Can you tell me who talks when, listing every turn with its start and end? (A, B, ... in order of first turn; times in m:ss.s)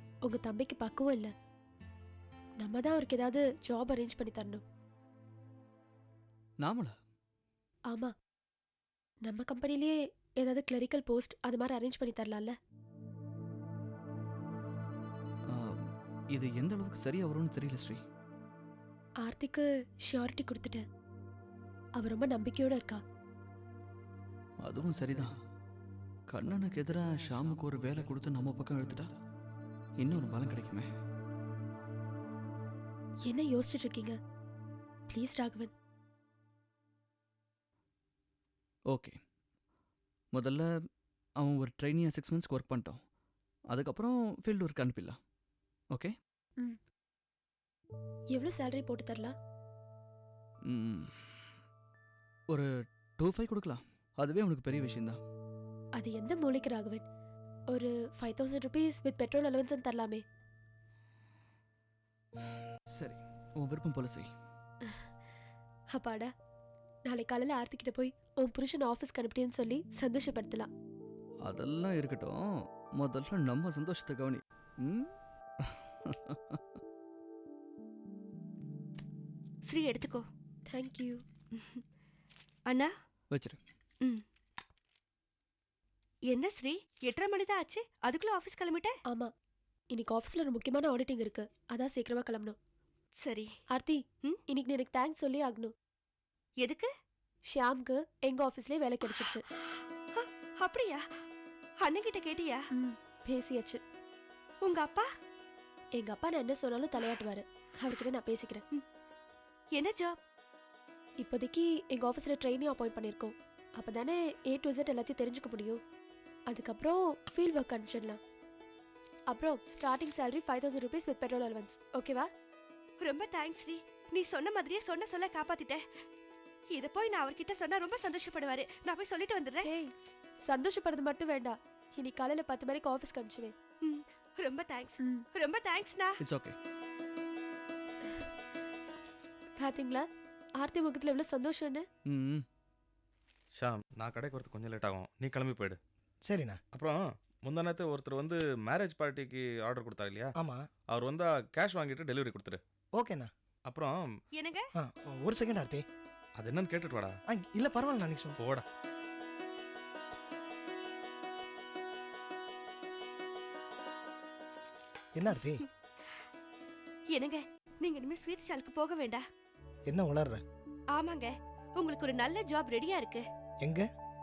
0:00.2-0:01.3 A
0:02.6-0:04.6 A
0:06.6-0:07.0 B
0:09.2-0:12.5 A
0:16.3-0:18.0 B
0:19.2-0:20.8 A
0:22.0-0:23.0 A
0:24.6-0:25.3 B
0:26.3-0:29.1 B
0:30.0-0:30.9 B
0:33.3-0:34.2 A
0:35.1-0:35.7 A
0:38.9-0:39.2 B
0:40.3-0:40.7 B
0:41.4-0:43.0 B
0:43.7-0:45.2 B
0:48.3-0:49.3 A
0:50.6-0:51.2 B
0:53.2-0:55.2 B
0:56.0-0:57.0 A
0:57.7-1:00.2 A
1:02.9-1:04.3 B
1:05.9-1:06.3 A
1:07.0-1:10.7 A
1:11.4-1:12.4 B
1:13.0-1:15.1 B
1:19.6-1:20.2 C
1:20.7-1:21.2 A
1:21.5-1:21.8 C
1:22.7-1:22.9 C
1:23.3-1:23.6 B
1:26.3-1:28.9 C
1:29.9-1:32.6 A
1:33.2-1:33.5 C
1:33.7-1:35.7 A
1:36.6-1:36.9 C
1:37.5-1:39.4 A
1:40.1-1:41.0 C
1:41.8-1:42.6 C
1:42.7-1:43.8 A
1:44.6-1:45.1 C
1:46.0-1:48.6 A
1:49.7-1:50.2 C
1:51.2-1:55.8 A
1:56.5-1:58.2 A
1:59.3-2:02.3 A
2:03.0-2:05.8 C
2:06.7-2:09.7 C
2:09.6-2:09.9 A
2:10.4-2:13.5 A
2:13.8-2:16.2 C
2:16.2-2:16.6 B
2:19.6-2:20.0 A
2:20.6-2:21.8 A
2:22.0-2:22.4 B
2:23.5-2:25.8 D
2:26.2-2:26.6 E
2:26.7-2:30.3 D
2:30.4-2:30.6 E
2:30.9-2:32.6 D
2:32.9-2:33.3 E
2:33.6-2:34.1 D
2:34.3-2:34.6 C
2:34.8-2:35.8 E
2:36.4-2:37.2 D
2:37.3-2:38.4 E
2:38.4-2:38.6 D
2:45.2-2:45.6 E
2:45.3-2:46.2 C
2:47.1-2:49.2 C
2:49.9-2:50.4 E
2:50.9-2:53.2 C